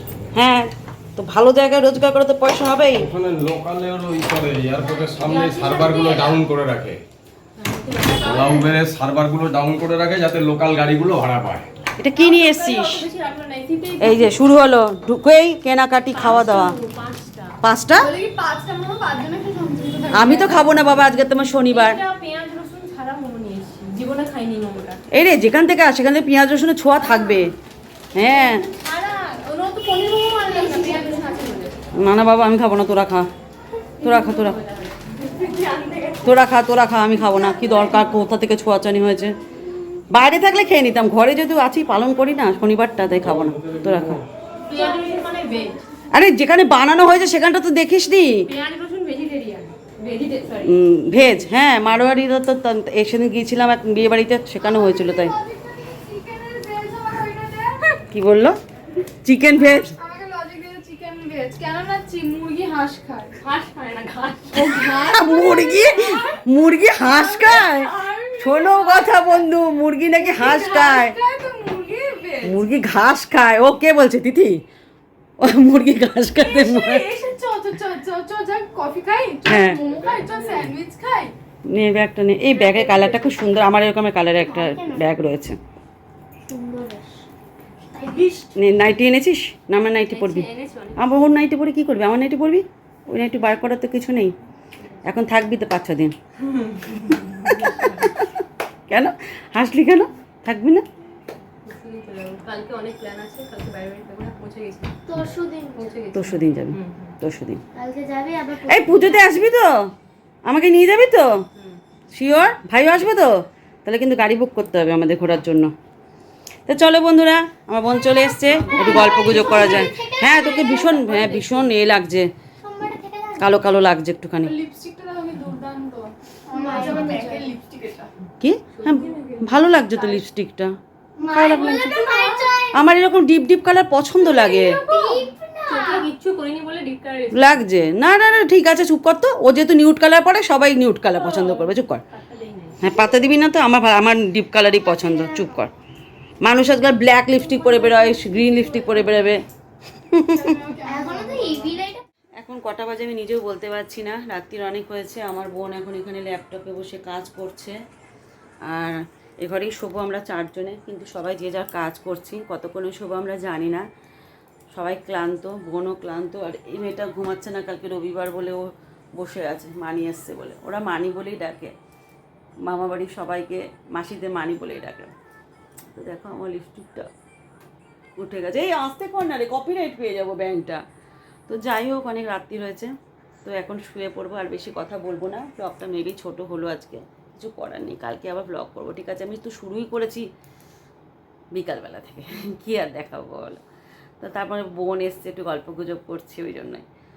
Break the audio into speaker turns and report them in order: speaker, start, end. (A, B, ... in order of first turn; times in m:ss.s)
0:00.4-0:03.1 A
0:03.0-0:07.0 B
0:05.3-0:06.3 C
0:07.6-0:08.7 D
0:08.2-0:11.7 B
0:12.0-0:13.0 A
0:12.1-0:14.4 D
0:14.0-0:16.8 A
0:16.1-0:17.6 D
0:17.6-0:18.1 A
0:18.8-0:20.6 C
0:20.1-0:22.0 A
0:21.7-0:25.0 D
0:25.1-0:27.5 A
0:28.1-0:28.6 A
0:28.2-0:30.4 C
0:30.5-0:31.7 D
0:30.6-0:31.2 E
0:32.0-0:33.3 A
0:34.0-0:34.6 A
0:34.0-0:36.3 D
0:36.2-0:39.3 A
0:40.1-0:44.2 A
0:43.2-0:44.2 B
0:44.7-0:45.8 D
0:46.1-0:48.4 A
0:48.4-0:51.5 D
0:50.6-0:55.4 A
0:54.6-0:57.7 C
0:58.1-0:58.6 A
0:59.2-0:59.9 A
0:59.6-1:03.3 C
1:03.4-1:05.2 D
1:04.9-1:05.7 C
1:04.9-1:11.2 A
1:05.7-1:06.3 D
1:07.0-1:09.2 C
1:10.2-1:11.9 C
1:12.4-1:14.6 A
1:15.4-1:17.1 A
1:16.4-1:19.7 C
1:19.4-1:19.8 A
1:19.7-1:20.7 D
1:20.5-1:21.3 C
1:21.7-1:25.6 A
1:22.7-1:23.3 D
1:24.4-1:25.0 E
1:26.5-1:27.2 E
1:27.9-1:28.4 D
1:28.6-1:30.4 A
1:30.1-1:31.0 D
1:31.0-1:34.3 A
1:35.0-1:36.1 A
1:36.5-1:38.1 D
1:38.0-1:38.3 A
1:38.9-1:40.8 A
1:41.6-1:45.0 D
1:45.1-1:45.9 E
1:45.8-1:47.2 D
1:46.1-1:47.6 A
1:47.7-1:49.5 E
1:48.7-1:49.8 A
1:50.4-1:51.3 A
1:52.1-1:53.3 A
1:53.8-1:55.7 A
1:56.7-2:02.3 A
1:58.1-2:01.0 E
1:58.5-1:59.9 D
2:00.6-2:01.7 D
2:02.6-2:03.6 E
2:03.4-2:04.5 A
2:05.2-2:06.0 C
2:06.5-2:07.4 E
2:06.6-2:07.4 D
2:08.4-2:10.7 A
2:08.7-2:10.2 D
2:11.2-2:12.8 E
2:11.3-2:12.0 A
2:11.5-2:12.3 C
2:12.7-2:14.8 A
2:14.4-2:16.1 E
2:15.7-2:17.7 D
2:17.3-2:22.0 A
2:21.1-2:22.8 D
2:22.8-2:25.7 A
2:22.8-2:23.3 E
2:24.7-2:25.6 E
2:26.4-2:29.4 A
2:27.6-2:28.1 E
2:28.3-2:29.4 D
2:30.1-2:30.5 A
2:30.4-2:31.6 C
2:30.8-2:32.0 E
2:32.4-2:37.8 A
2:38.6-2:43.8 A
2:44.7-2:51.7 A
2:52.6-2:55.1 A
2:55.9-2:57.1 A
2:58.2-3:00.8 A
3:01.5-3:02.9 A
3:03.4-3:10.2 A
3:11.5-3:13.6 A
3:14.2-3:16.8 A